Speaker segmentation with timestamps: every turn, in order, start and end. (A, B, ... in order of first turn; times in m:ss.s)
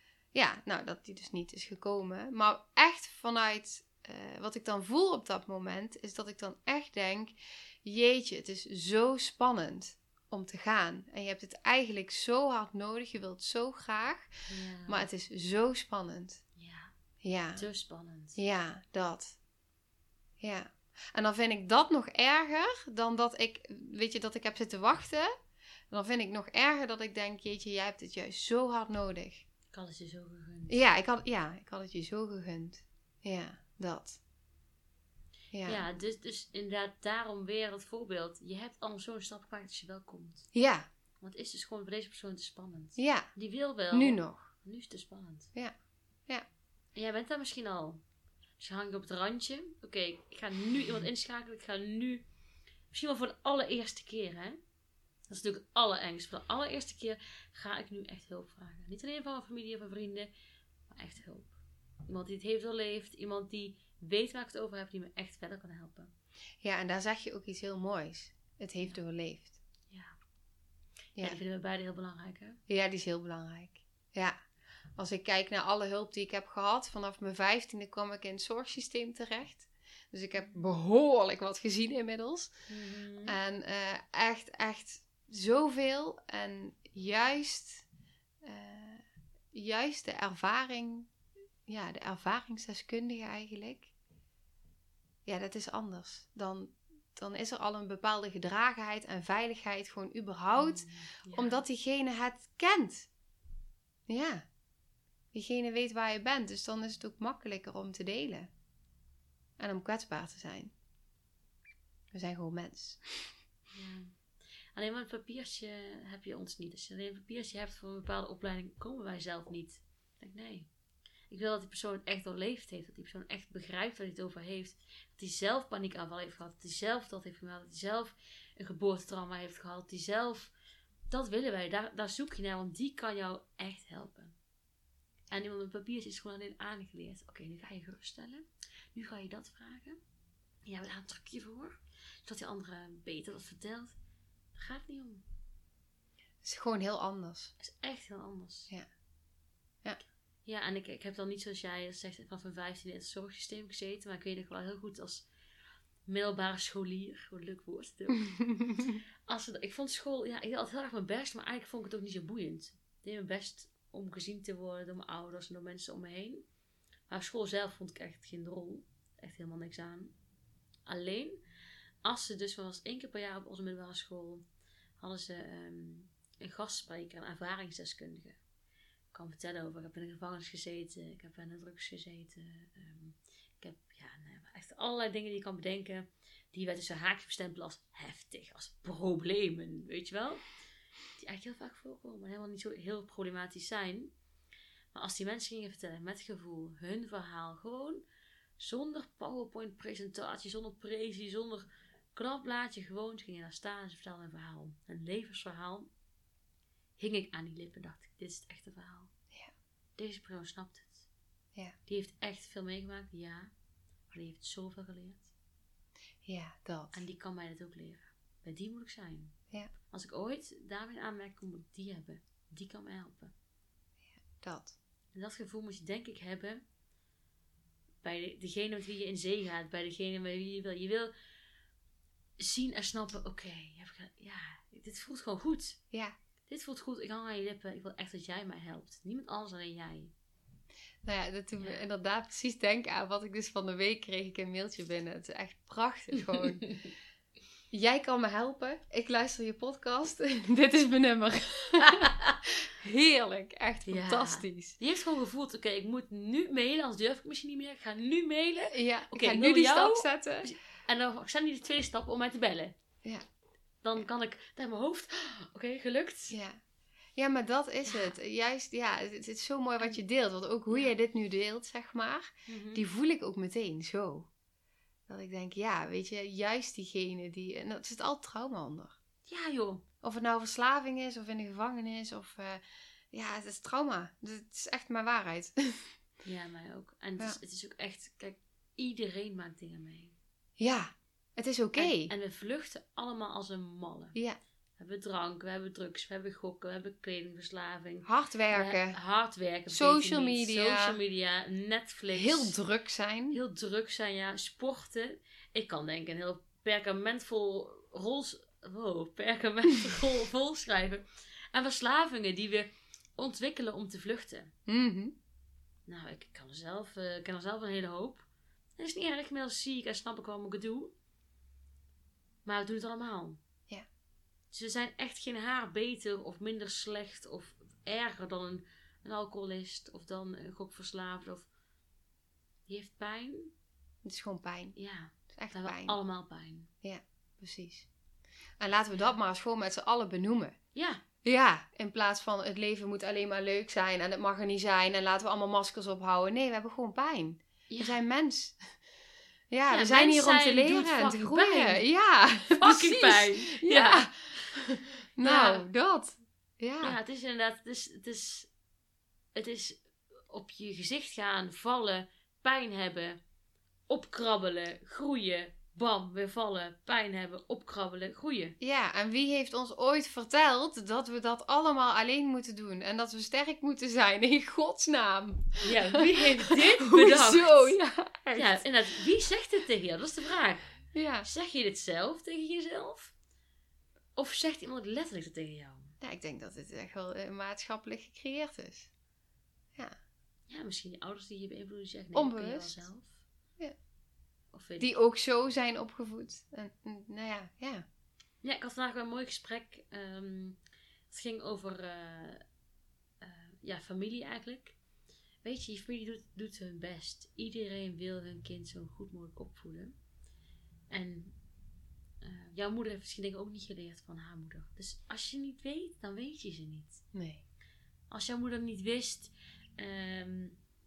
0:00.3-0:14.3 A
0:14.5-0:15.1 B
0:14.9-0:16.4 A
0:16.6-0:16.9 B
0:17.2-0:17.6 A
0:17.6-0:18.4 B
0:18.4-0:19.4 A
0:20.4-0:25.3 A
0:25.9-0:29.4 A
0:29.7-0:30.8 B
0:30.7-0:34.2 A
0:35.5-0:35.8 A
0:35.6-0:40.4 B
0:40.5-0:40.9 A
0:41.2-0:45.5 B
0:43.0-0:43.2 A
0:43.9-0:44.4 A
0:46.9-0:48.0 B
0:48.6-0:52.2 B
0:52.9-0:54.6 B
0:55.3-1:00.3 B
1:00.9-1:01.6 B
1:02.1-1:06.1 B
1:06.6-1:09.6 A
1:11.2-1:12.6 B
1:12.7-1:14.4 A
1:15.0-1:22.5 A
1:22.7-1:23.4 B
1:23.2-1:27.9 A
1:28.4-1:31.1 A
1:31.7-1:33.9 A
1:35.2-1:43.1 A
1:40.6-1:41.6 B
1:44.1-1:44.4 A
1:45.3-1:48.5 A
1:49.6-1:50.7 A
1:52.1-1:53.0 A
1:53.7-1:54.1 B
1:54.7-2:00.7 B
2:01.3-2:10.5 B
2:11.1-2:14.3 B
2:15.3-2:20.0 B
2:20.6-2:23.9 B
2:24.6-2:25.2 B
2:26.4-2:27.5 A
2:27.6-2:28.7 B
2:30.4-2:35.2 B
2:36.1-2:38.3 B
2:38.6-2:38.9 A
2:39.3-2:46.4 B
2:47.1-2:50.1 B
2:50.9-2:51.4 B
2:52.0-2:54.4 B
2:55.0-2:58.4 B
2:59.1-3:10.4 B
3:11.2-3:14.1 B
3:14.9-3:18.0 B
3:18.6-3:25.9 B
3:27.0-3:29.1 B
3:30.0-3:31.1 B
3:31.9-3:33.5 B
3:34.1-3:35.3 B
3:36.2-3:37.0 A
3:36.9-3:39.3 B
3:39.9-3:43.3 B
3:44.2-3:44.8 A
3:45.1-3:46.6 B
3:48.0-3:51.1 B
3:52.4-3:55.8 B
3:56.5-4:00.1 B
4:01.0-4:06.6 A
4:06.4-4:06.9 B
4:07.7-4:12.1 A
4:12.0-4:12.4 B
4:12.6-4:14.8 A
4:13.8-4:22.8 B
4:18.7-4:20.5 A
4:23.8-4:26.4 B
4:26.3-4:26.6 A
4:27.2-4:34.3 A
4:27.8-4:28.2 B
4:32.5-4:32.8 B
4:35.1-4:39.0 A
4:39.3-4:39.8 B
4:40.0-4:45.8 A
4:46.2-4:50.1 B
4:50.6-4:52.1 A
4:51.8-4:54.2 B
4:54.8-5:02.6 B
4:58.0-4:59.0 A
4:59.7-5:01.0 A
5:02.1-5:03.4 A
5:03.3-5:14.5 B
5:14.7-5:15.1 A
5:15.9-5:18.2 B
5:18.8-5:20.9 B
5:22.4-5:23.4 B
5:24.5-5:31.5 B
5:32.7-5:33.5 B
5:34.0-5:34.8 A
5:34.8-5:36.7 B
5:35.3-5:36.0 A
5:36.8-5:37.9 A
5:38.6-5:40.5 A
5:40.7-5:41.0 B
5:41.2-5:48.6 A
5:47.7-5:48.0 B
5:49.5-5:57.0 A
5:49.7-5:51.8 B
5:52.5-5:54.6 B
5:55.2-5:55.6 B
5:56.8-5:58.5 B
5:59.3-6:03.2 B
6:03.9-6:08.6 B
6:08.6-6:18.7 A
6:15.6-6:17.8 B
6:18.3-6:20.6 B
6:20.9-6:21.3 A
6:21.2-6:23.1 B
6:24.2-6:25.9 B
6:26.0-6:28.9 A
6:30.5-6:33.2 B
6:32.1-6:32.8 A
6:34.5-6:34.9 B
6:34.8-6:37.8 A
6:38.4-6:40.6 B
6:41.1-6:42.4 B
6:43.2-6:44.8 B
6:45.4-6:50.0 B
6:50.9-6:51.3 B
6:52.2-6:57.0 B
6:57.1-6:57.4 A
6:58.1-7:00.6 B